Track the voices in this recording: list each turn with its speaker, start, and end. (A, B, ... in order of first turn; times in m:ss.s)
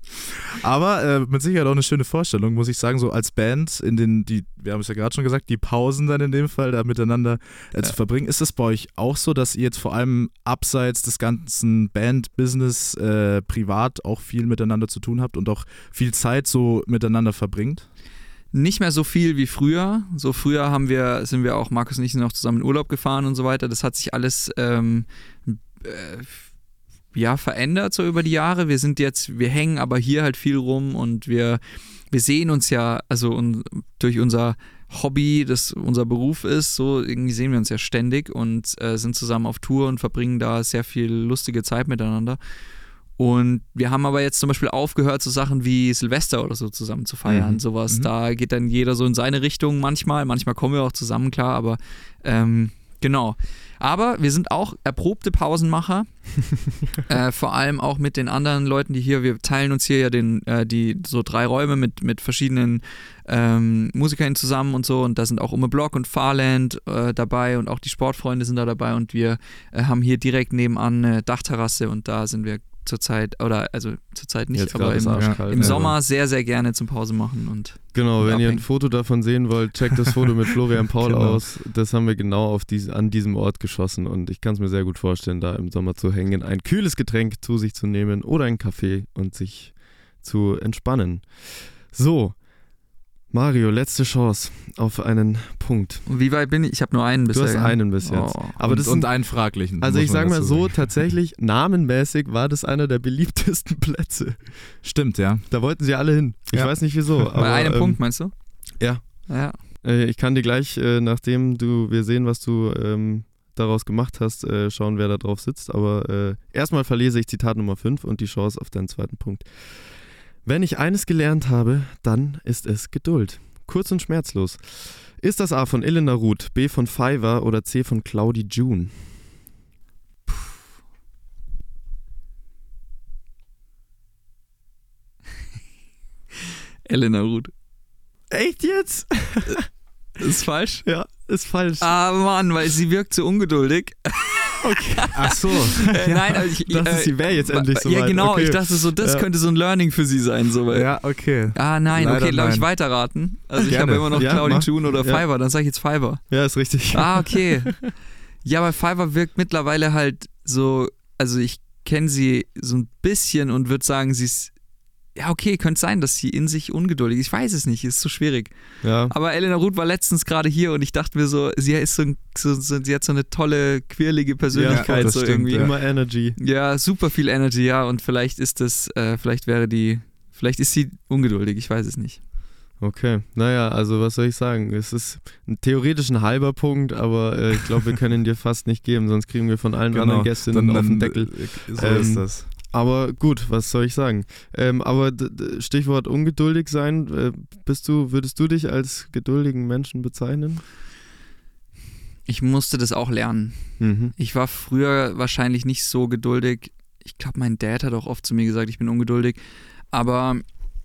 0:00.6-0:17.9 A
0:18.5-0:26.4 B
0:27.1-0:42.4 B
0:43.2-0:56.4 B
0:47.3-0:48.1 A
0:57.0-1:18.6 B
1:14.5-1:16.0 C
1:15.1-1:15.9 A
1:17.9-1:32.4 C
1:21.0-1:21.4 A
1:33.3-1:36.0 C
1:36.1-1:38.6 B
1:37.3-1:44.7 C
1:38.6-1:41.1 A
1:44.8-1:45.4 A
1:45.5-1:48.0 C
1:46.5-1:47.3 A
1:47.4-1:48.3 B
1:48.8-2:09.1 C
1:49.3-1:49.6 B
2:16.8-2:17.5 B
2:18.3-2:19.7 C
2:20.2-2:20.9 B
2:20.8-2:21.9 C
2:21.8-2:25.1 B
2:24.6-2:25.7 C
2:25.1-2:26.2 A
2:25.8-2:31.0 B
2:26.7-2:29.2 C
2:30.7-2:32.8 A
2:31.5-2:36.3 B
2:33.7-2:34.4 A
2:34.1-2:35.2 C
2:36.3-2:37.8 C
2:36.9-2:37.8 B
2:38.4-2:44.5 B
2:45.2-2:48.5 B
2:48.8-2:49.1 C
2:49.0-2:55.7 B
2:54.5-2:56.4 C
2:54.7-2:55.7 A
2:56.4-3:02.2 B
3:02.8-3:20.6 C
3:09.9-3:12.5 A
3:22.2-3:29.4 B
3:23.8-3:24.1 C
3:29.9-3:30.4 B